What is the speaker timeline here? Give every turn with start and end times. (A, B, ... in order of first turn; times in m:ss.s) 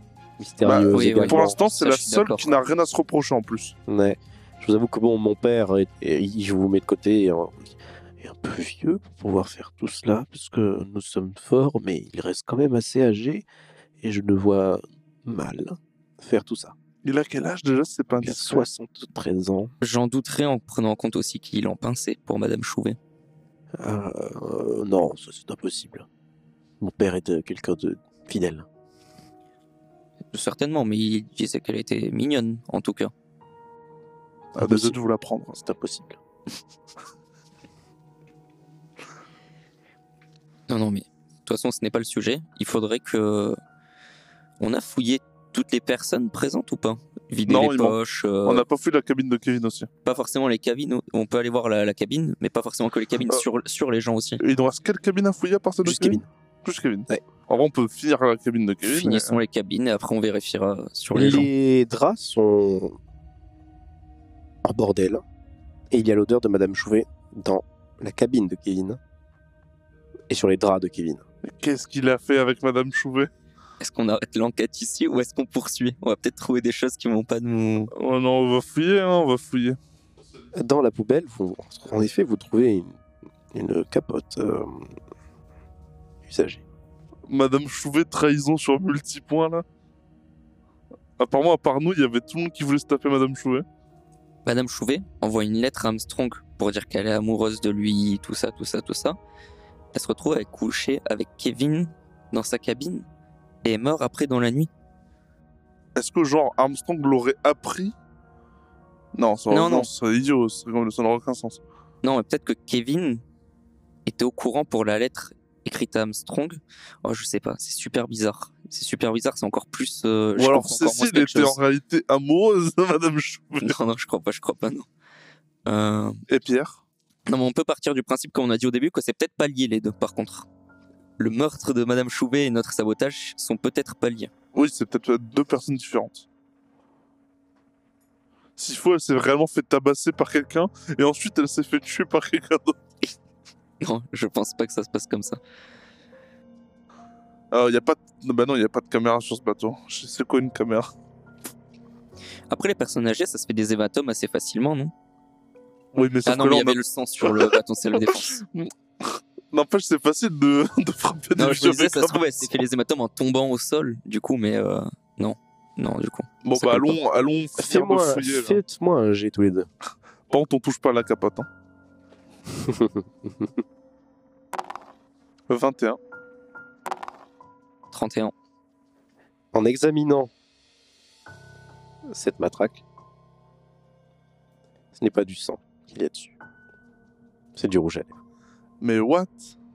0:00.4-0:01.6 A
0:00.6-0:03.8 B
0:00.9-0:02.5 C
0:03.9-0:13.5 A
0:14.0-0:16.7 A
0:17.0-0:18.7 B
0:18.2-0:19.7 A
0:19.8-0:23.0 C
0:23.8-0:26.1 A
0:26.8-0:28.6 A
0:30.3-0:33.1 C
0:34.5-0:35.0 A
0:34.6-0:35.6 B
0:35.5-0:36.2 A
0:40.7-0:43.6 C
0:44.6-0:48.6 C
0:47.5-0:49.9 B
0:50.0-0:54.4 C
0:54.4-0:59.4 B
0:55.8-0:56.3 A
0:58.8-1:01.5 C
1:01.1-1:03.0 A
1:04.6-1:05.2 A
1:05.9-1:09.0 A
1:10.3-1:11.2 A
1:11.4-1:13.3 B
1:13.8-1:17.9 C
1:17.9-1:19.8 B
1:20.5-1:23.0 A
1:23.5-1:24.9 A
1:26.2-1:26.6 A
1:27.3-1:29.6 B
1:31.2-1:33.6 B
1:34.4-1:39.2 C
1:39.9-1:43.1 C
1:43.6-1:44.7 C
1:46.0-1:48.0 B
1:49.1-1:51.6 B
1:49.5-1:49.9 C
1:52.0-1:53.2 C
1:54.1-2:01.6 C
2:00.4-2:03.8 B
2:03.6-2:04.9 C
2:05.7-2:06.2 C
2:06.3-2:06.8 B
2:07.3-2:10.5 C
2:11.2-2:14.3 C
2:14.5-2:16.3 B
2:18.6-2:22.8 B
2:23.8-2:25.4 C
2:27.5-2:30.9 B
2:32.5-2:34.9 C
2:35.9-2:42.6 B
2:36.3-2:38.4 C
2:41.4-2:47.0 C
2:46.4-2:48.6 B
2:47.6-2:49.7 A
2:50.3-2:51.5 B
2:52.5-2:53.5 A
2:55.5-2:56.0 B
2:57.9-2:58.3 C
2:59.5-3:00.3 A
3:02.1-3:02.8 A
3:05.0-3:06.4 A
3:07.6-3:08.1 A
3:08.8-3:09.6 B